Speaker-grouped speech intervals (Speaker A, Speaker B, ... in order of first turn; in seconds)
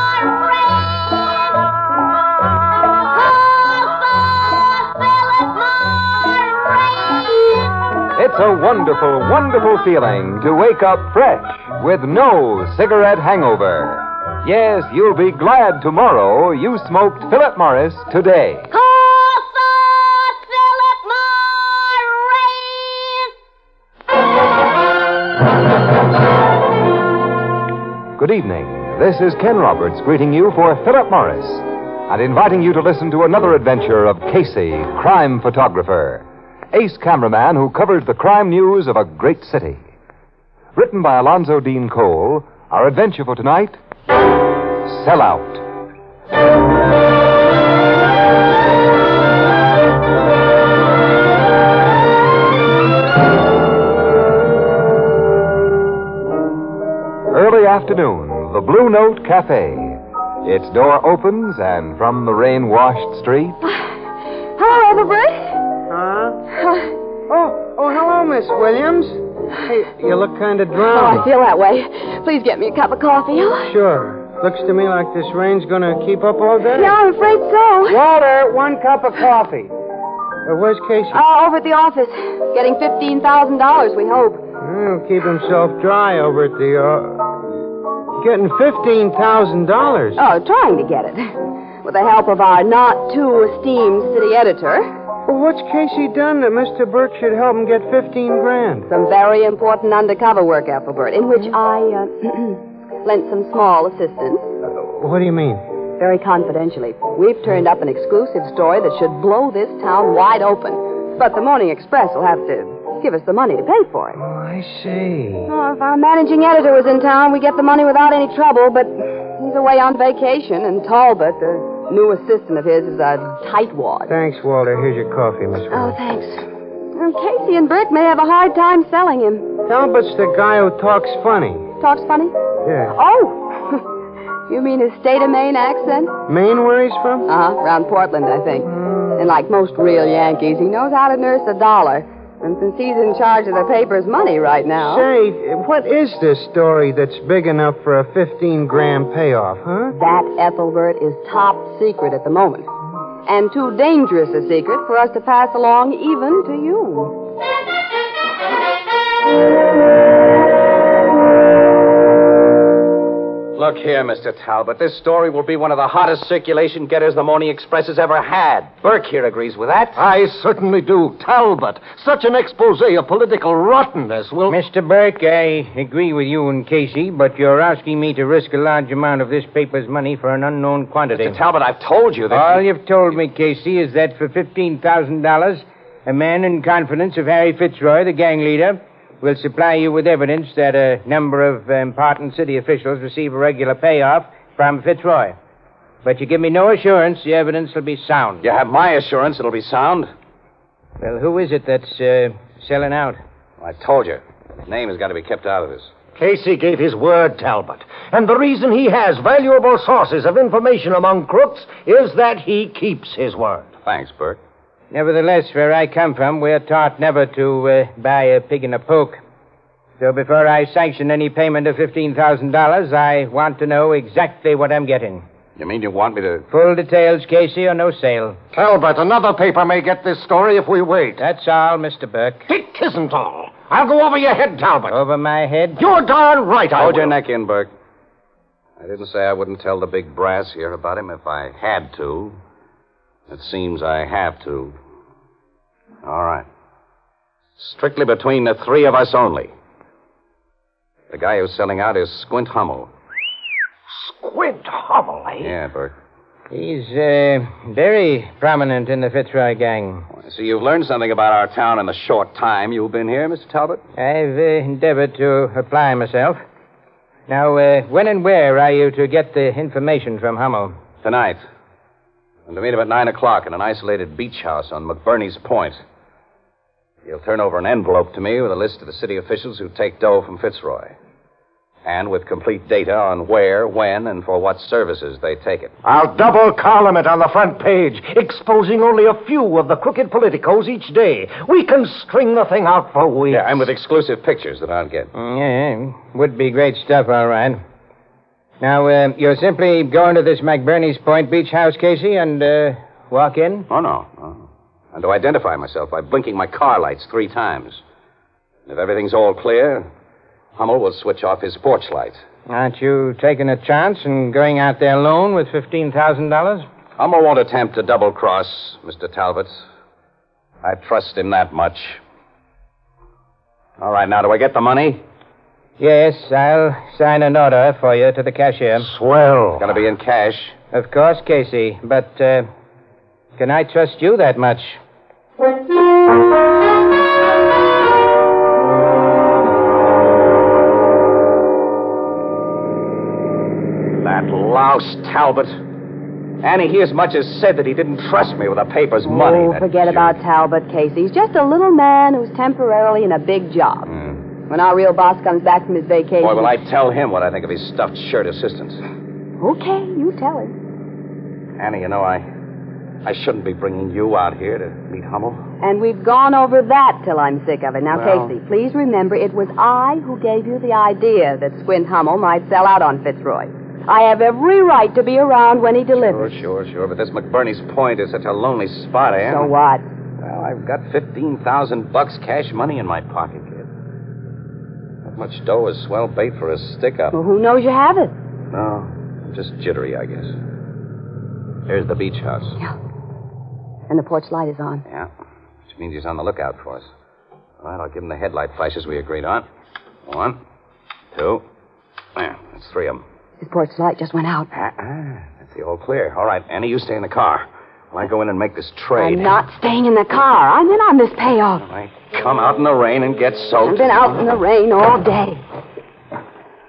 Speaker A: 8.1-18.7, 28.1-39.9, 40.7-43.8, 44.8-45.6, 57.3-63.6
Speaker B: 18.7-23.0, 64.6-65.6, 66.5-66.9, 70.8-73.7, 76.7-78.0, 81.1-84.4, 90.2-94.9, 98.9-104.5, 106.0-114.2, 115.5-124.1, 125.7-129.5, 131.8-132.3, 132.9-133.8, 134.5-136.2, 137.3-145.1, 149.9-152.7, 153.2-157.2, 349.0-353.9, 354.5-356.5, 359.4-360.6, 365.6-376.4, 379.2-379.8, 387.1-388.1, 393.9-394.8, 403.4-404.5, 409.0-411.6, 413.6-415.4
Speaker C: 65.9-66.4, 67.3-71.2, 73.7-77.0, 77.8-79.7, 80.4-81.2, 84.6-87.3, 88.2-90.2, 95.3-98.9, 104.7-105.6, 114.2-115.5, 124.1-126.0, 129.7-131.7, 132.6-132.9, 136.3-137.3, 144.8-149.9
Speaker D: 163.6-170.0, 181.2-182.6, 198.4-200.1, 203.6-205.9, 213.8-214.4, 225.6-226.4, 236.8-237.7, 238.8-242.4, 243.3-244.7, 246.0-246.4, 247.6-249.5, 251.1-252.9, 255.4-255.9, 260.1-263.8, 271.0-271.4, 272.5-275.8, 277.1-280.9, 281.8-285.7, 293.3-295.1, 303.7-307.8, 308.7-309.9, 310.6-312.2, 317.0-319.6, 320.6-322.0, 323.8-325.0, 329.6-330.6, 344.0-345.6, 346.4-350.2, 353.9-354.2, 356.2-358.8, 361.6-362.2, 363.0-365.4, 367.9-368.3, 376.1-379.5, 380.2-383.7, 385.0-387.1, 388.5-390.3, 391.7-392.6, 395.7-396.9, 397.6-399.4, 400.1-400.4, 401.1-401.4, 402.1-403.0, 404.5-409.3, 411.6-414.1
Speaker E: 169.9-174.6, 206.2-213.7, 228.5-231.2, 232.5-234.9, 235.8-237.1, 253.9-255.5, 285.8-293.6, 328.9-329.5
Speaker F: 174.5-181.4, 182.3-195.3, 196.0-198.5, 201.0-203.2, 214.9-219.2, 220.0-225.2, 226.5-228.4, 231.2-232.4, 234.9-235.8, 256.5-260.1, 264.0-266.4, 267.3-270.8, 295.1-297.6, 298.6-303.7, 312.5-316.6, 325.8-328.9, 330.7-332.5, 333.4-334.8